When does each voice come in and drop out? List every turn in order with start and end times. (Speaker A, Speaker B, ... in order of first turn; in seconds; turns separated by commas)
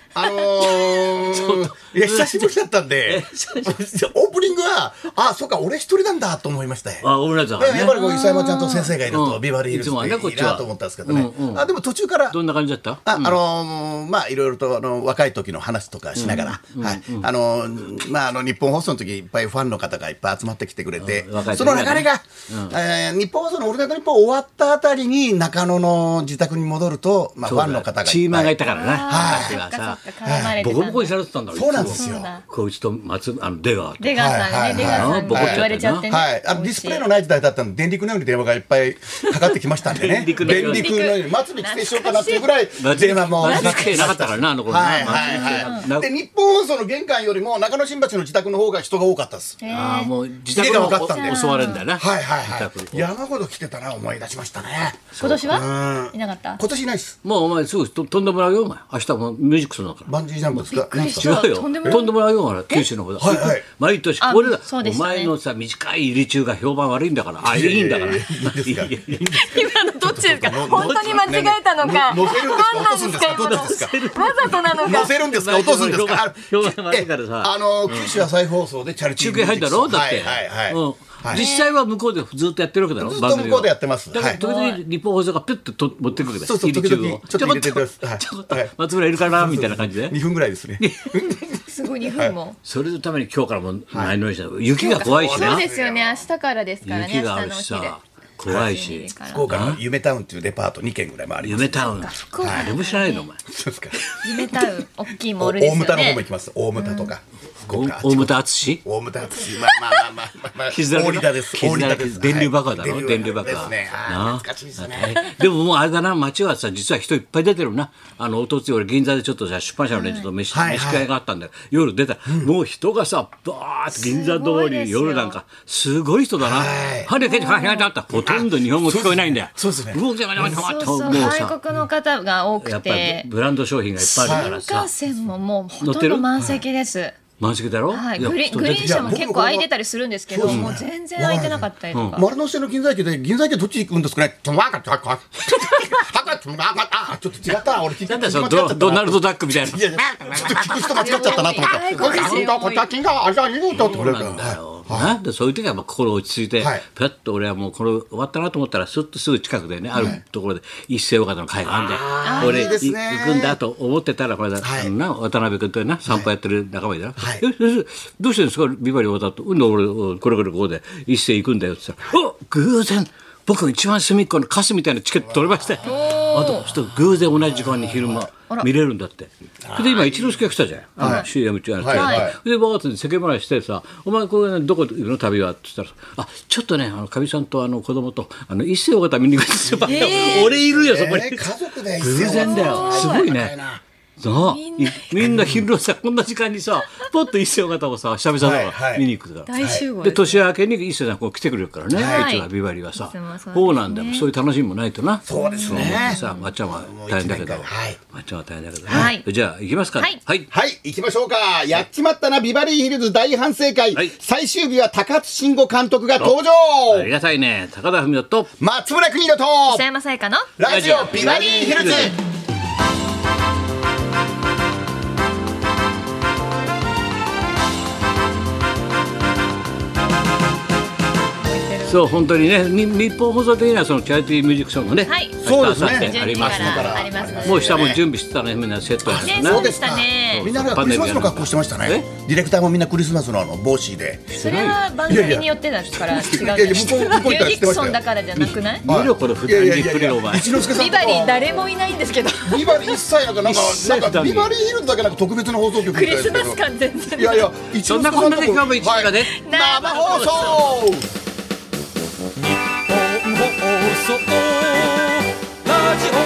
Speaker A: 0.1-12.4, Speaker B: 0.2-1.1, Speaker C: 1.2-2.5, Speaker C: 3.0-3.7, Speaker C: 7.0-8.0, Speaker B: 7.9-8.9, Speaker C: 9.1-11.7, Speaker C: 12.3-13.4, Speaker A: 13.1-28.5, Speaker C: 16.1-17.3, Speaker C: 21.0-22.8, Speaker C: 27.4-30.0, Speaker B: 28.6-31.2, Speaker A: 29.1-29.6, Speaker A: 30.2-30.6, Speaker C: 30.5-36.1, Speaker A: 31.5-32.3, Speaker B: 31.9-32.4, Speaker B: 34.0-37.1, Speaker A: 34.1-49.6, Speaker C: 39.9-40.9, Speaker B: 40.3-42.5, Speaker C: 42.8-46.1, Speaker B: 43.4-44.2, Speaker B: 45.0-45.8, Speaker B: 49.6-50.1, Speaker C: 49.7-53.1, Speaker A: 50.5-57.2, Speaker B: 51.0-51.8, Speaker C: 55.1-55.6, Speaker B: 55.2-56.6, Speaker C: 57.2-60.1, Speaker A: 60.1-62.0, Speaker B: 60.6-62.1, Speaker C: 60.9-69.3, Speaker A: 63.2-63.6, Speaker B: 64.2-65.3, Speaker A: 67.4-74.0, Speaker B: 69.3-75.2, Speaker C: 73.4-78.2, Speaker A: 74.8-81.5, Speaker C: 79.1-90.2, Speaker B: 81.3-81.8, Speaker A: 83.0-84.4, Speaker B: 84.1-84.8, Speaker A: 86.3-91.6, Speaker C: 90.8-91.2, Speaker B: 91.5-92.6, Speaker C: 92.6-95.7, Speaker B: 94.8-98.0, Speaker A: 94.9-96.3, Speaker C: 96.8-99.8, Speaker B: 98.5-99.5, Speaker A: 99.3-102.8, Speaker C: 101.4-103.4, Speaker B: 101.7-103.2, Speaker A: 103.5-104.0, Speaker C: 104.0-104.6, Speaker B: 104.2-106.2, Speaker A: 105.4-115.2, Speaker B: 106.8-107.2, Speaker C: 107.7-108.8, Speaker C: 110.7-131.5, Speaker B: 119.9-120.2, Speaker A: 120.5-121.1, Speaker B: 123.9-125.4, Speaker A: 126.4-127.1, Speaker B: 127.2-127.9, Speaker A: 128.1-131.3, Speaker B: 130.4-133.3, Speaker C: 132.6-134.9, Speaker B: 134.0-137.2, Speaker A: 134.2-134.5, Speaker C: 135.8-136.3, Speaker C: 137.4-139.2, Speaker B: 137.9-142.2, Speaker A: 138.6-139.7, Speaker A: 140.3-155.2, Speaker C: 140.5-140.7, Speaker C: 141.9-142.2, Speaker C: 145.5-145.9, Speaker C: 148.1-152.5, Speaker B: 150.8-152.9, Speaker C: 153.7-193.5, Speaker A: 159.9-160.2, Speaker A: 161.7-163.6, Speaker B: 162.2-162.8, Speaker A: 164.6-164.9, Speaker A: 167.2-167.4, Speaker A: 175.3-176.0, Speaker B: 175.8-176.7, Speaker A: 177.3-178.3, Speaker A: 179.6-180.4, Speaker A: 181.0-181.3, Speaker B: 181.0-181.3, Speaker A: 181.8-182.4, Speaker B: 181.9-182.3, Speaker A: 189.6-193.8, Speaker B: 189.8-190.5, Speaker B: 192.1-193.3, Speaker C: 194.2-210.5, Speaker B: 194.3-195.3, Speaker A: 195.2-195.6, Speaker A: 198.4-199.1, Speaker B: 199.5-200.4, Speaker A: 199.6-199.8, Speaker A: 201.9-202.3, Speaker B: 202.0-204.3, Speaker A: 205.3-208.0, Speaker B: 205.3-206.5, Speaker A: 208.9-209.1, Speaker B: 208.9-209.2, Speaker A: 210.5-217.1, Speaker C: 216.2-218.5, Speaker A: 218.6-219.8, Speaker B: 219.7-222.2, Speaker A: 220.6-222.2, Speaker C: 220.7-222.1, Speaker B: 231.4-232.2, Speaker C: 231.8-239.7, Speaker B: 235.0-237.9, Speaker A: 235.4-238.0, Speaker A: 239.1-244.3, Speaker B: 239.1-240.5, Speaker C: 240.3-242.1, Speaker C: 244.3-244.8, Speaker B: 244.3-248.8, Speaker A: 245.1-248.0, Speaker C: 248.3-250.6, Speaker A: 248.8-251.4, Speaker B: 250.7-253.0, Speaker A: 252.4-256.6, Speaker C: 253.4-254.5, Speaker B: 255.8-257.5, Speaker A: 257.1-261.1, Speaker C: 257.9-259.3, Speaker B: 259.2-260.7, Speaker C: 260.2-260.4